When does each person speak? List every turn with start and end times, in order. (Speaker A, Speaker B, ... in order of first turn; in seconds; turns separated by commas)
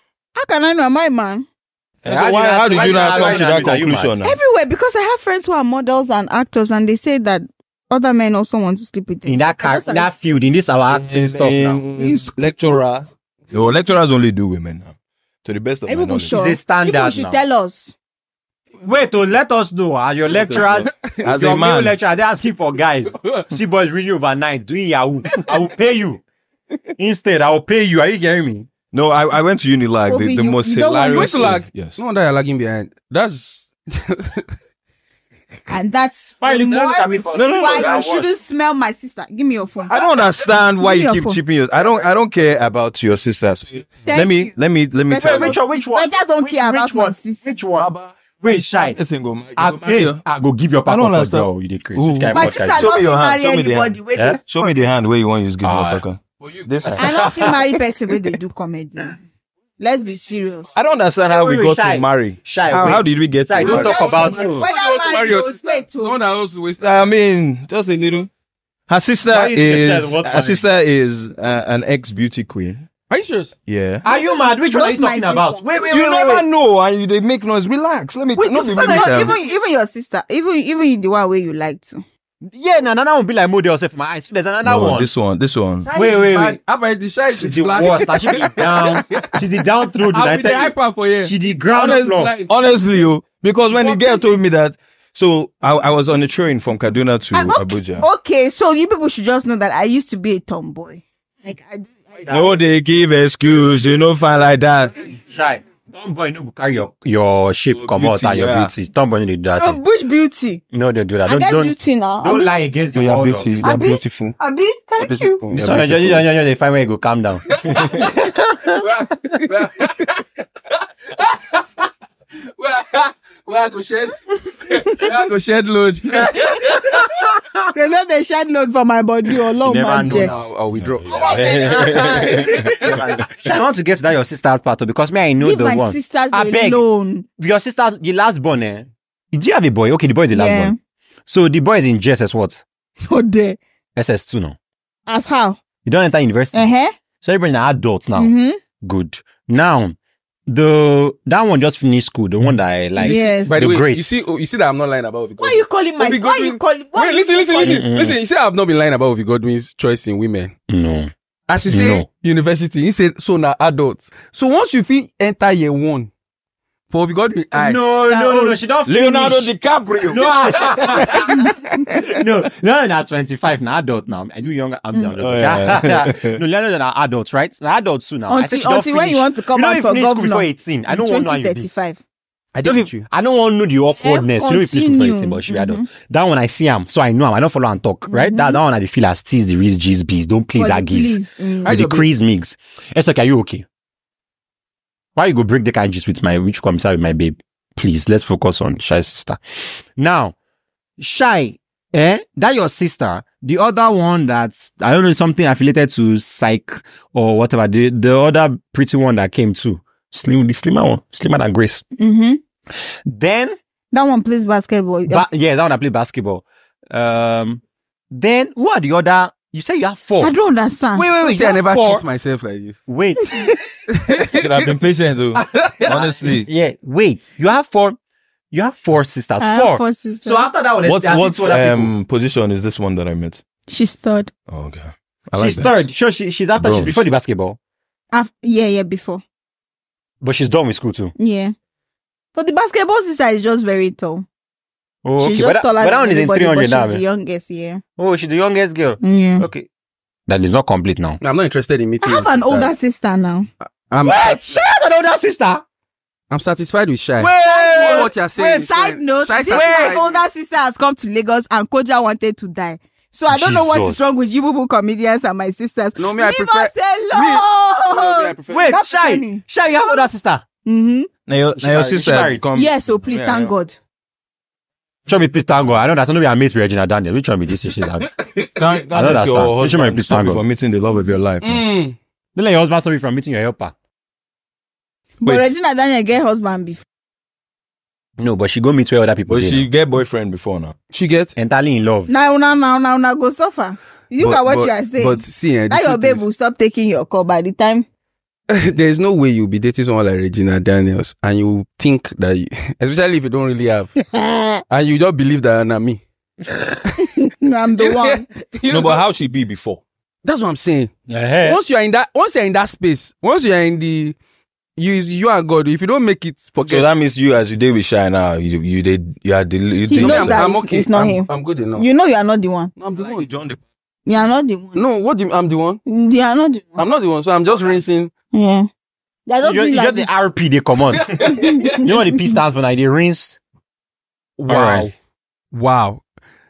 Speaker A: 0.3-1.5, Speaker B: 2.0-4.4, Speaker C: 2.0-4.2, Speaker D: 2.9-3.4, Speaker A: 4.2-10.1, Speaker C: 9.3-11.8, Speaker B: 10.9-14.9, Speaker B: 15.4-16.4, Speaker A: 15.9-17.9, Speaker C: 16.3-17.4, Speaker C: 18.8-26.2, Speaker B: 20.3-22.0, Speaker D: 23.1-23.5, Speaker C: 27.0-28.7, Speaker B: 28.9-32.0, Speaker A: 30.1-31.5, Speaker D: 31.1-34.5, Speaker A: 35.7-40.0, Speaker C: 36.4-38.3, Speaker B: 37.3-38.0, Speaker B: 39.9-45.6, Speaker A: 40.8-41.4, Speaker A: 44.1-44.5, Speaker A: 45.1-47.5, Speaker C: 45.2-49.0, Speaker B: 47.8-48.1, Speaker B: 48.8-50.2, Speaker C: 49.6-52.9, Speaker B: 50.9-57.6, Speaker A: 52.3-54.7, Speaker C: 54.1-54.4, Speaker C: 55.6-56.0, Speaker D: 56.4-56.7, Speaker C: 56.8-57.6, Speaker A: 57.0-59.2, Speaker A: 59.8-60.7, Speaker B: 60.7-64.3, Speaker C: 61.3-64.7, Speaker A: 63.6-66.2, Speaker D: 63.6-66.8, Speaker B: 66.8-68.3, Speaker B: 68.9-72.9, Speaker C: 69.3-70.7, Speaker D: 73.1-73.5, Speaker B: 73.7-74.0, Speaker C: 74.0-76.5, Speaker A: 74.1-75.9, Speaker B: 75.7-79.3, Speaker A: 78.4-82.0, Speaker D: 78.8-79.3, Speaker C: 82.4-85.1, Speaker B: 84.6-85.9, Speaker D: 85.8-89.3, Speaker C: 86.0-86.6, Speaker C: 87.3-92.3, Speaker D: 90.0-91.3, Speaker B: 91.7-98.1, Speaker D: 91.9-92.5, Speaker D: 93.7-94.3, Speaker A: 97.3-102.6, Speaker B: 102.3-105.1, Speaker C: 105.2-109.8, Speaker B: 107.7-108.7, Speaker A: 109.6-110.6, Speaker C: 110.7-113.9, Speaker A: 111.3-112.5, Speaker B: 112.9-114.4, Speaker A: 113.6-115.4, Speaker B: 115.0-116.2, Speaker C: 115.5-118.8, Speaker D: 117.5-118.2, Speaker D: 118.8-121.9, Speaker D: 122.6-127.0, Speaker A: 127.7-130.3, Speaker C: 129.6-130.3, Speaker D: 130.0-133.1, Speaker B: 130.8-133.0, Speaker C: 131.2-136.8, Speaker A: 131.2-132.3, Speaker A: 135.4-137.3, Speaker C: 137.4-140.8, Speaker A: 140.3-140.8, Speaker C: 141.3-142.6, Speaker A: 143.1-143.6, Speaker C: 143.9-144.6, Speaker A: 145.1-145.6, Speaker C: 145.8-146.7, Speaker A: 146.5-146.9, Speaker C: 147.2-148.3, Speaker A: 148.2-148.6, Speaker C: 148.8-150.0, Speaker C: 150.5-154.2, Speaker A: 153.0-153.6, Speaker D: 153.0-160.5, Speaker A: 155.4-157.9, Speaker C: 157.6-158.2, Speaker C: 160.7-161.1, Speaker D: 161.5-166.1, Speaker C: 161.7-162.1, Speaker D: 166.9-167.8, Speaker C: 167.6-169.5, Speaker A: 168.1-168.6, Speaker B: 168.9-170.7, Speaker C: 170.1-181.7, Speaker B: 175.2-176.4, Speaker A: 178.3-182.0, Speaker D: 182.5-183.1, Speaker C: 182.7-193.7, Speaker A: 184.0-185.8, Speaker A: 188.1-188.6, Speaker A: 190.6-191.8, Speaker D: 191.6-192.1, Speaker C: 195.2-200.3, Speaker C: 201.0-211.9, Speaker A: 212.0-212.4, Speaker C: 213.1-213.6, Speaker A: 213.9-215.3, Speaker C: 215.1-220.3, Speaker A: 220.2-221.2, Speaker C: 220.9-222.0, Speaker D: 221.2-222.8, Speaker C: 222.9-223.5, Speaker D: 223.9-224.5, Speaker B: 224.3-226.5, Speaker D: 225.3-226.3, Speaker C: 226.5-228.0, Speaker C: 228.5-231.9, Speaker A: 229.4-230.5, Speaker B: 230.8-233.4, Speaker A: 233.7-234.3, Speaker B: 234.5-235.9, Speaker C: 235.4-237.6, Speaker B: 236.6-237.1, Speaker A: 238.1-239.2, Speaker C: 240.2-241.1, Speaker A: 241.2-241.5, Speaker A: 242.3-244.3, Speaker C: 245.0-247.0, Speaker A: 245.2-247.8, Speaker C: 248.0-249.7, Speaker A: 249.0-249.5, Speaker C: 250.3-251.2, Speaker D: 251.2-252.7, Speaker A: 252.0-253.5, Speaker D: 253.9-254.5, Speaker C: 254.0-255.6, Speaker D: 256.3-260.2, Speaker C: 257.2-258.6, Speaker A: 257.4-270.0, Speaker C: 259.5-260.0, Speaker C: 263.3-264.0, Speaker D: 266.0-268.7, Speaker C: 268.5-270.4, Speaker A: 270.6-271.1, Speaker B: 271.3-273.6, Speaker C: 271.6-272.4, Speaker A: 272.6-273.8, Speaker C: 275.1-278.1, Speaker B: 278.6-281.6, Speaker C: 278.9-280.4, Speaker D: 281.4-282.0, Speaker C: 282.4-283.7, Speaker A: 285.2-286.8, Speaker C: 288.2-289.7, Speaker B: 289.3-290.7, Speaker D: 290.9-291.3, Speaker C: 291.4-292.1, Speaker A: 292.1-297.9, Speaker D: 294.2-296.2, Speaker D: 298.5-304.0, Speaker A: 304.1-304.6, Speaker D: 304.7-306.0, Speaker A: 307.2-308.3, Speaker D: 307.8-309.0, Speaker B: 308.7-309.8, Speaker D: 310.2-310.9, Speaker C: 311.1-311.6, Speaker D: 311.4-314.1, Speaker D: 314.8-316.9, Speaker B: 316.6-320.4, Speaker A: 319.9-322.7, Speaker D: 319.9-321.9, Speaker D: 322.8-323.3, Speaker B: 322.9-323.6, Speaker A: 324.1-324.8, Speaker D: 324.8-325.8, Speaker A: 325.9-326.9, Speaker D: 326.8-328.1, Speaker A: 328.3-328.7, Speaker A: 329.3-330.1, Speaker C: 329.4-333.4, Speaker D: 330.9-331.8, Speaker A: 331.2-331.9, Speaker D: 334.4-334.9, Speaker C: 334.5-334.9, Speaker D: 335.5-336.0